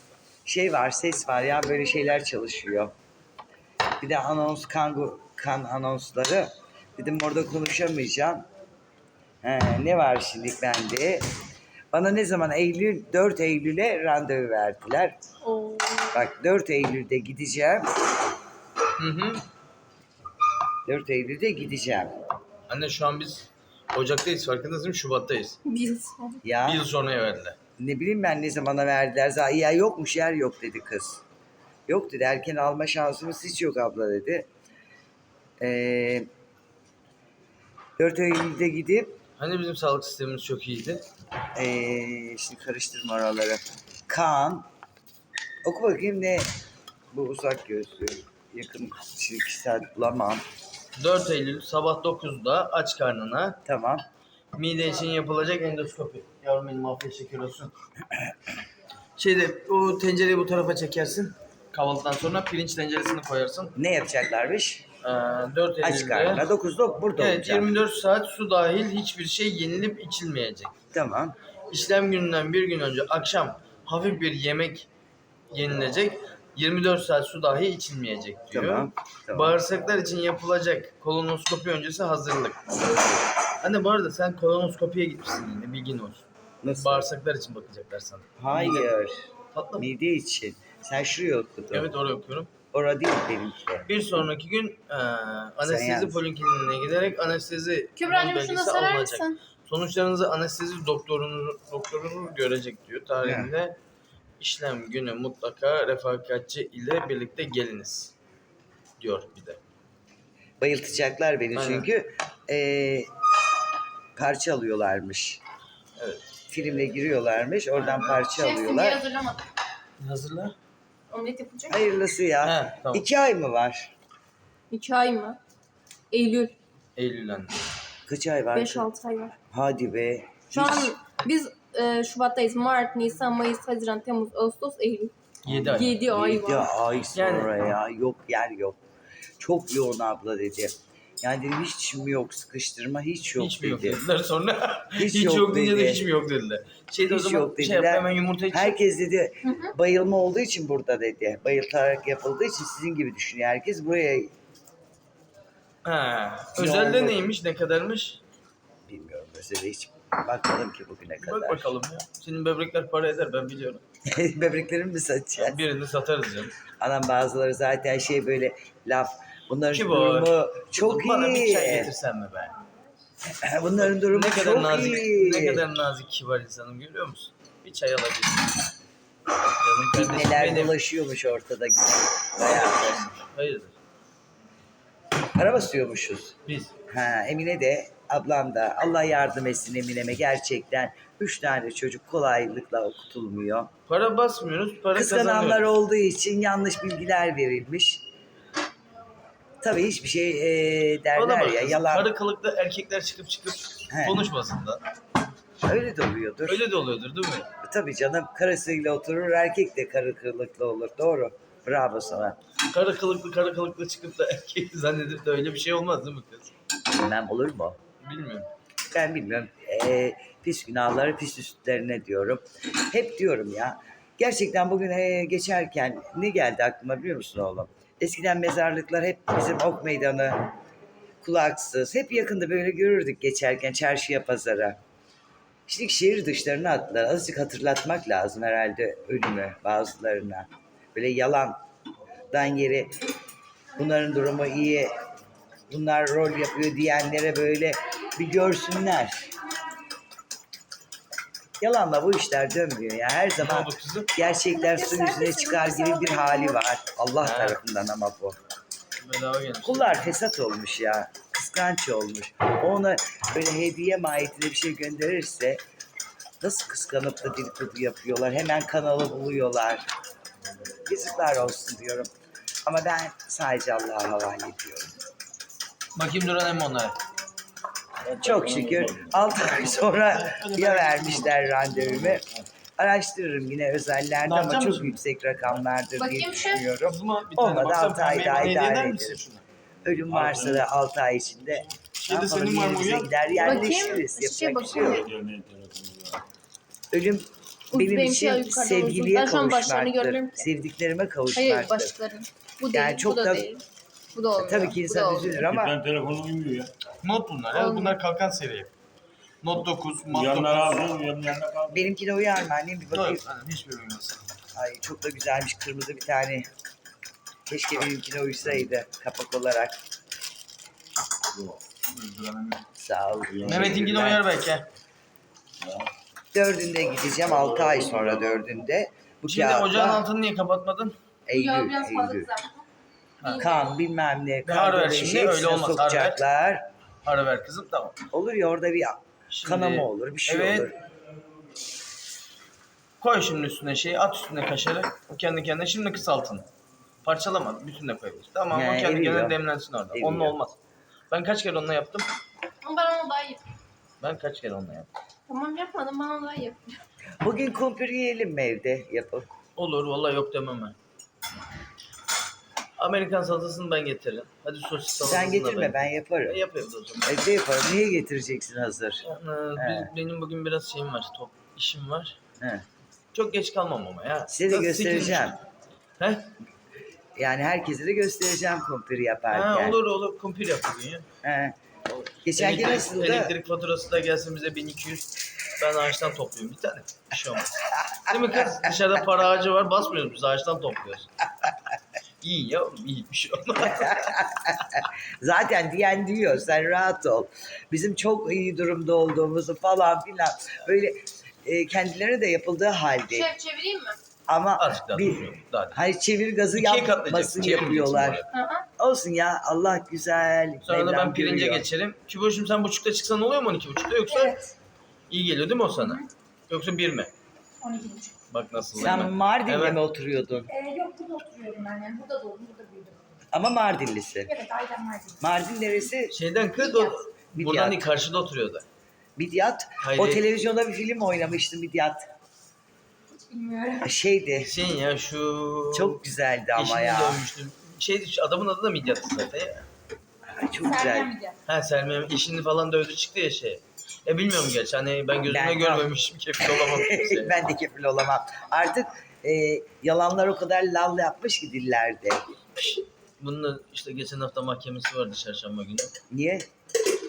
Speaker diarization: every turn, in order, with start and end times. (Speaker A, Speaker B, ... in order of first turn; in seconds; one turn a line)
Speaker A: 0.4-2.9
Speaker A: 4.0-8.4
Speaker A: 9.4-11.2
Speaker A: 11.9-15.2
Speaker B: 15.4-16.2
Speaker A: 16.1-17.8
Speaker C: 19.0-19.4
Speaker A: 20.9-22.1
Speaker C: 22.7-25.6
Speaker B: 25.6-26.4
Speaker A: 26.4-26.8
Speaker C: 26.6-27.6
Speaker A: 27.8-31.2
Speaker A: 31.9-34.5
Speaker A: 35.6-36.3
Speaker A: 38.0-39.2
Speaker C: 39.4-41.0
Speaker A: 41.5-44.7
Speaker A: 45.6-46.5
Speaker A: 47.1-50.4
Speaker C: 51.0-53.6
Speaker A: 53.6-54.0
Speaker C: 54.5-57.7
Speaker C: 59.2-63.7
Speaker A: 63.8-64.8
Speaker C: 65.0-66.5
Speaker A: 65.8-67.7
Speaker C: 67.2-70.7
Speaker A: 70.9-71.3
Speaker C: 71.7-74.9
Speaker C: 75.5-82.7
Speaker A: 78.5-79.6
Speaker C: 83.6-88.9
Speaker A: 86.6-87.1
Speaker A: 88.4-89.2
Speaker C: 89.5-89.9
Speaker A: 89.8-91.9
Speaker C: 91.7-92.5
Speaker A: 92.7-93.9
Speaker C: 93.9-103.8
Speaker A: 95.6-96.2
Speaker B: 98.0-99.4
Speaker A: 103.2-103.5
Speaker C: 104.4-108.1
Speaker C: 109.0-109.6
Speaker A: 110.6-113.1
Speaker C: 111.5-111.9
Speaker A: 114.1-115.4
Speaker C: 116.0-116.2
Speaker A: 116.5-119.1
Speaker C: 117.8-118.2
Speaker B: 118.2-119.4
Speaker C: 120.0-120.5
Speaker B: 121.1-121.8
Speaker A: 121.7-123.9
Speaker C: 122.4-123.1
Speaker B: 124.7-125.4
Speaker B: 126.1-126.5
Speaker C: 127.0-127.6
Speaker A: 128.1-128.9
Speaker B: 128.5-129.3
Speaker A: 129.5-130.9
Speaker C: 130.5-130.8
Speaker B: 130.5-135.1
Speaker C: 135.4-136.0
Speaker A: 135.5-138.8
Speaker B: 135.7-136.7
Speaker C: 137.1-137.5
Speaker A: 139.4-144.0
Speaker C: 143.4-148.8
Speaker A: 144.9-146.1
Speaker A: 147.1-154.3
Speaker B: 149.4-149.7
Speaker C: 155.8-158.2
Speaker A: 156.5-157.3
Speaker A: 158.9-161.7
Speaker C: 161.2-163.8
Speaker A: 164.1-165.6
Speaker C: 165.4-166.5
Speaker A: 166.8-171.9
Speaker C: 169.7-172.6
Speaker A: 173.3-175.6
Speaker C: 173.8-178.6
Speaker C: 179.6-180.7
Speaker A: 179.9-183.1
Speaker C: 182.4-183.8
Speaker A: 185.3-186.3
Speaker C: 186.4-186.7
Speaker A: 186.9-193.7
Speaker C: 193.9-195.7
Speaker A: 194.9-198.0
Speaker A: 199.6-202.1
Speaker C: 201.1-204.8
Speaker A: 203.9-204.2
Speaker A: 205.6-206.7
Speaker C: 206.5-207.5
Speaker A: 207.6-212.3
Speaker C: 212.7-216.5
Speaker A: 216.9-217.8
Speaker C: 218.0-218.5
Speaker A: 218.9-230.5
Speaker A: 231.2-234.8
Speaker A: 235.7-241.6
Speaker A: 242.3-242.9
Speaker A: 243.7-244.9
Speaker A: 245.7-249.3
Speaker A: 251.6-258.4
Speaker C: 253.4-254.1
Speaker D: 254.6-256.5
Speaker C: 257.2-257.6
Speaker C: 259.0-260.0
Speaker A: 259.6-265.6
Speaker A: 266.4-269.9
Speaker A: 270.9-272.1
Speaker A: 272.6-274.9
Speaker C: 275.9-276.9
Speaker A: 278.1-282.2
Speaker E: 278.2-279.0
Speaker C: 280.0-281.5
Speaker E: 281.6-282.2
Speaker A: 282.8-289.2
Speaker C: 284.2-285.0
Speaker B: 286.0-286.7
Speaker C: 286.8-289.4
Speaker A: 289.8-295.1
Speaker E: 289.9-290.7
Speaker C: 291.9-293.2
Speaker B: 293.3-295.1
Speaker E: 293.4-293.7
Speaker E: 294.7-296.2
Speaker A: 296.9-301.9
Speaker B: 297.7-300.5
Speaker B: 301.3-303.6
Speaker A: 302.7-303.5
Speaker B: 304.1-305.4
Speaker A: 304.3-305.8
Speaker E: 305.3-306.7
Speaker C: 307.0-308.7
Speaker B: 307.5-308.0
Speaker C: 309.4-310.9
Speaker E: 310.1-311.9
Speaker A: 311.7-313.2
Speaker C: 312.9-314.2
Speaker A: 314.5-316.5
Speaker A: 317.4-319.8
Speaker C: 321.9-322.6
Speaker A: 322.8-324.2
Speaker C: 323.4-324.7
Speaker A: 326.3-330.0
Speaker E: 327.6-328.1
Speaker C: 329.2-330.9
Speaker A: 331.3-332.3
Speaker B: 331.3-332.6
Speaker B: 333.2-333.7
Speaker A: 333.3-336.6
Speaker C: 334.4-336.2
Speaker C: 337.0-338.0
Speaker A: 338.1-340.8
Speaker C: 339.3-340.7
Speaker C: 343.0-346.5
Speaker C: 347.0-350.6
Speaker A: 348.5-349.4
Speaker A: 349.9-350.4
Speaker C: 351.1-352.1
Speaker B: 352.6-353.4
Speaker C: 354.0-354.9
Speaker B: 355.3-356.8
Speaker A: 357.2-359.3
Speaker C: 359.6-360.8
Speaker C: 362.8-367.1
Speaker A: 365.0-366.4
Speaker A: 367.0-369.1
Speaker C: 369.0-372.2
Speaker A: 369.6-369.9
Speaker C: 373.1-375.4
Speaker A: 374.3-375.4
Speaker C: 376.0-376.3
Speaker A: 377.2-379.8
Speaker C: 379.3-381.1
Speaker A: 381.2-381.5
Speaker A: 382.2-383.3
Speaker C: 382.3-391.2
Speaker C: 392.2-394.2
Speaker A: 393.6-403.3
Speaker B: 403.1-404.0
Speaker A: 404.3-408.2
Speaker C: 404.6-405.8
Speaker C: 406.5-408.3
Speaker B: 408.3-408.7
Speaker A: 408.8-411.7
Speaker C: 410.6-414.4
Speaker D: 414.1-414.5
Speaker C: 415.1-417.1
Speaker B: 415.8-416.0
Speaker D: 417.6-418.1
Speaker C: 418.3-420.5
Speaker A: 418.8-420.5
Speaker D: 420.5-422.9
Speaker A: 423.3-424.4
Speaker D: 424.4-425.1
Speaker A: 425.2-426.2
Speaker C: 426.1-428.6
Speaker A: 427.3-427.8
Speaker A: 429.1-432.1
Speaker C: 429.8-430.2
Speaker D: 433.3-433.8
Speaker A: 433.8-434.5
Speaker C: 434.4-436.0
Speaker A: 435.7-437.2
Speaker C: 436.5-439.6
Speaker A: 440.3-441.1
Speaker D: 440.7-441.3
Speaker C: 441.5-447.4
Speaker A: 445.2-445.9
Speaker A: 446.4-452.2
Speaker C: 453.2-455.9
Speaker A: 456.1-456.4